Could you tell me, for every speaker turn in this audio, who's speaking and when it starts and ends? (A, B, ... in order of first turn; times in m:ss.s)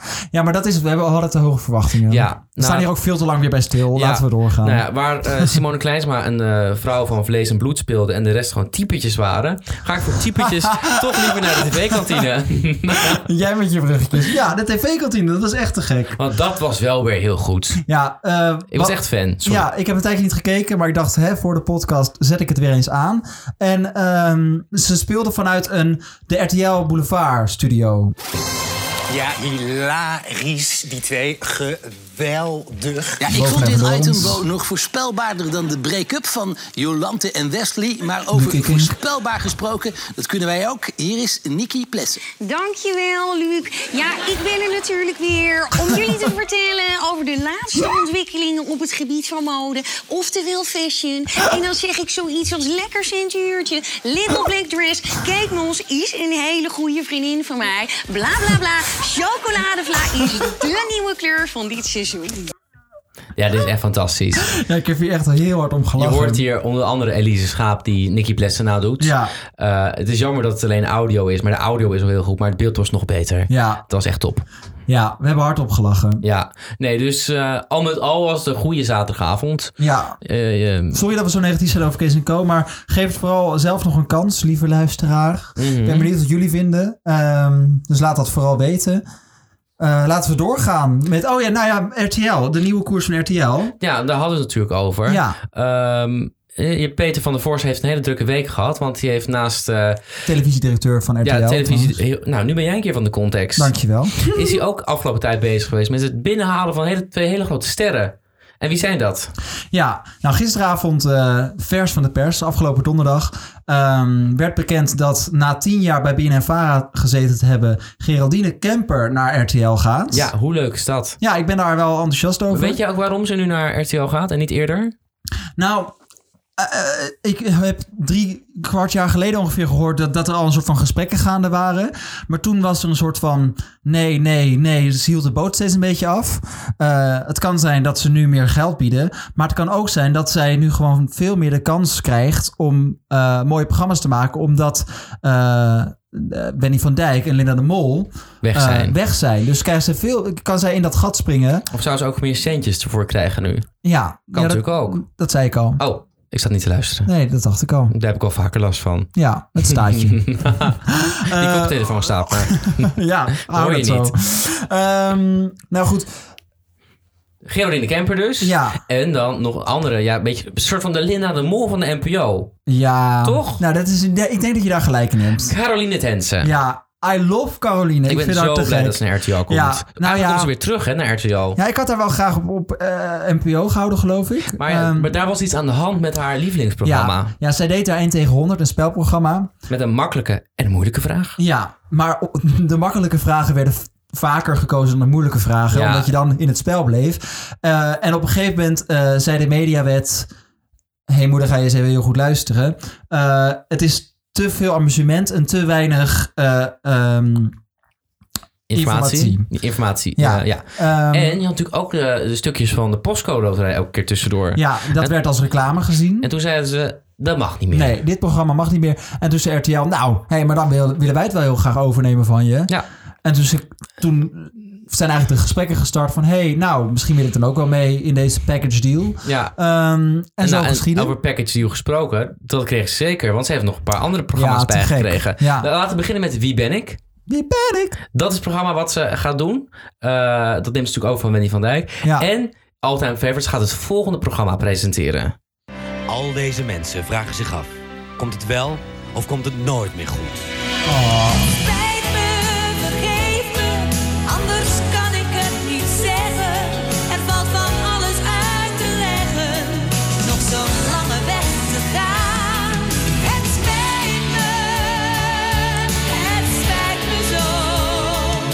0:00.3-0:05.6 A
0:02.1-0:02.9 B
0:03.9-0:13.2 B
0:10.4-0:12.2 A
0:13.1-0:16.2 A
0:16.2-0:17.8 B
0:17.8-0:28.1 A
0:18.7-0:19.6 B
0:29.1-0:33.2 C
0:33.2-0:42.2 D
0:33.3-0:34.4 A
0:38.3-0:38.9 A
0:42.4-1:02.5 E
1:03.4-1:04.5 B
1:04.5-1:06.4 A
1:06.0-1:14.4 B
1:09.0-1:09.3 A
1:13.5-1:13.8 A
1:14.9-1:16.2 A
1:16.2-1:19.7 B
1:19.8-1:20.2 A
1:20.2-1:21.0 B
1:20.9-1:29.0 A
1:25.6-1:26.1 B
1:29.8-1:33.7 A
1:33.8-1:40.0 B
1:35.0-1:35.4 A
1:40.2-1:42.0 A
1:41.2-1:49.3 B
1:43.6-1:44.6 A
1:49.7-2:00.3 A
2:00.1-2:01.2 B
2:01.2-2:02.8 A
2:02.5-2:04.9 B
2:05.6-2:05.9 A
2:06.6-2:31.6 A
2:28.4-2:28.9 B
2:31.7-2:33.7 B
2:33.8-2:35.8 A
2:34.3-2:35.0 B
2:35.8-2:37.1 B
2:37.0-2:37.9 A
2:37.9-2:39.1 B
2:39.1-2:46.1 A
2:39.6-2:40.8 B
2:41.3-2:44.1 B
2:47.4-2:52.5 B
2:48.4-2:48.8 A
2:52.7-2:55.5 A
2:53.2-2:53.6 B
2:55.4-2:56.5 B
2:56.4-3:00.5 A
2:58.1-3:01.6 B
3:01.6-3:05.1 A
3:04.6-3:07.3 B
3:06.8-3:09.5 A
3:09.7-3:11.4 B
3:11.4-3:20.3 A
3:15.7-3:16.1 B
3:21.1-3:27.6 A
3:28.7-3:35.1 B
3:28.7-3:29.5 A
3:30.2-3:31.4 A
3:34.5-3:36.3 A
3:36.2-3:38.0 B
3:37.7-3:42.7 A
3:43.2-3:51.1 A
3:49.2-3:49.5 B
3:50.4-3:57.0 B
3:54.3-3:55.7 A
3:57.3-3:58.0 A
3:58.1-4:05.3 B
4:06.1-4:10.4 F
4:10.8-4:11.6 A
4:11.7-4:13.0 G
4:12.9-4:13.6 E
4:14.2-4:16.0 E
4:14.5-4:15.3 G
4:16.2-4:22.1 G
4:21.0-4:22.9 E
4:23.2-4:24.6 G
4:26.2-4:28.2 G